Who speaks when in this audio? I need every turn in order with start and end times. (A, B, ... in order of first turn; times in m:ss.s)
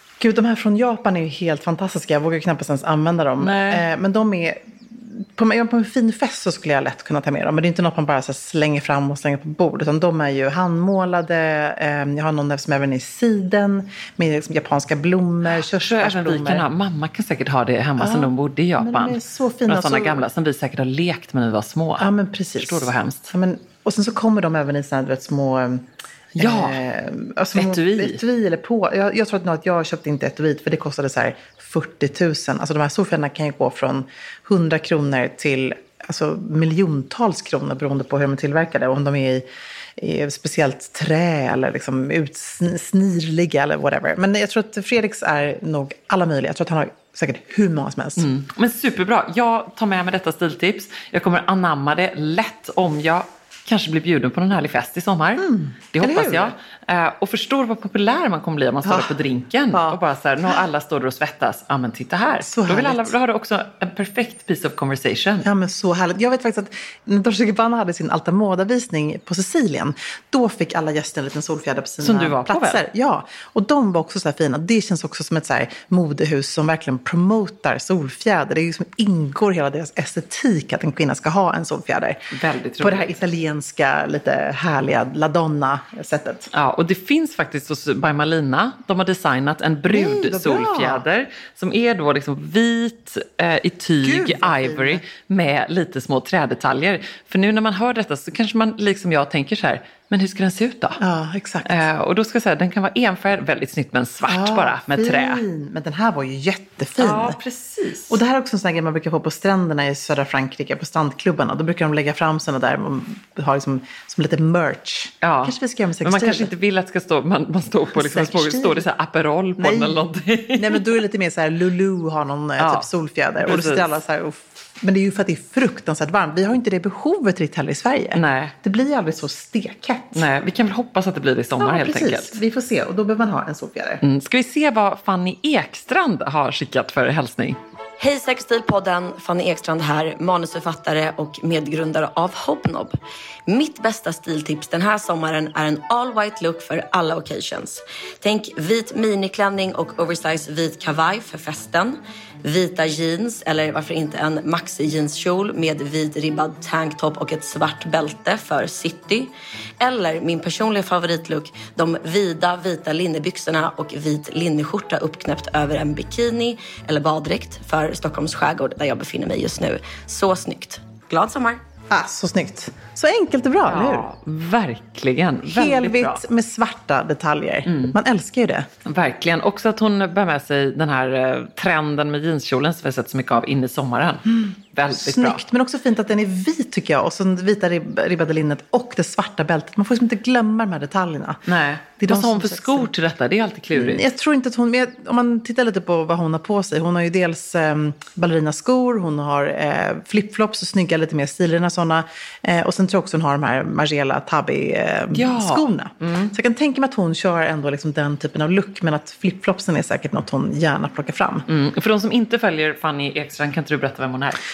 0:00.2-0:16.7 A
0:03.4-0:03.8 B
0:15.5-0:22.1 B
0:18.0-0:20.2 A
0:22.0-0:25.9 A
0:22.6-0:23.3 B
0:26.4-0:26.8 B
0:26.4-0:39.4 A
0:27.5-0:28.2 B
0:40.0-0:48.2 A
0:48.2-1:05.5 B
0:55.4-0:56.5 A
0:58.8-0:59.1 A
0:59.7-1:00.0 A
1:02.4-1:03.1 A
1:05.4-1:22.2 A
1:12.0-1:12.8 B
1:22.3-1:23.2 B
1:22.8-1:26.5 A
1:26.5-1:41.0 B
1:29.9-1:31.0 A
1:34.0-1:35.0 A
1:41.0-1:41.8 A
1:41.6-1:45.4 B
1:44.3-1:47.4 A
1:47.0-1:48.2 B
1:48.1-1:56.5 A
1:55.2-2:00.8 B
1:58.0-1:58.8 A
1:59.6-2:00.0 A
2:00.6-2:10.2 A
2:02.6-2:02.9 B
2:03.4-2:04.0 B
2:08.2-2:08.5 B
2:10.1-2:12.4 B
2:11.6-2:14.0 A
2:14.0-2:17.6 B
2:18.0-2:22.9 C
2:23.5-2:51.6 C
2:51.9-2:54.1 A
2:53.7-2:56.2 B
2:55.4-2:58.7 A
2:57.7-2:58.0 B
2:58.9-3:05.4 B
3:04.3-3:11.4 A
3:11.5-3:14.0 B
3:12.0-3:12.9 A
3:13.7-3:31.4 A
3:25.1-3:26.3 B
3:31.5-3:34.4 B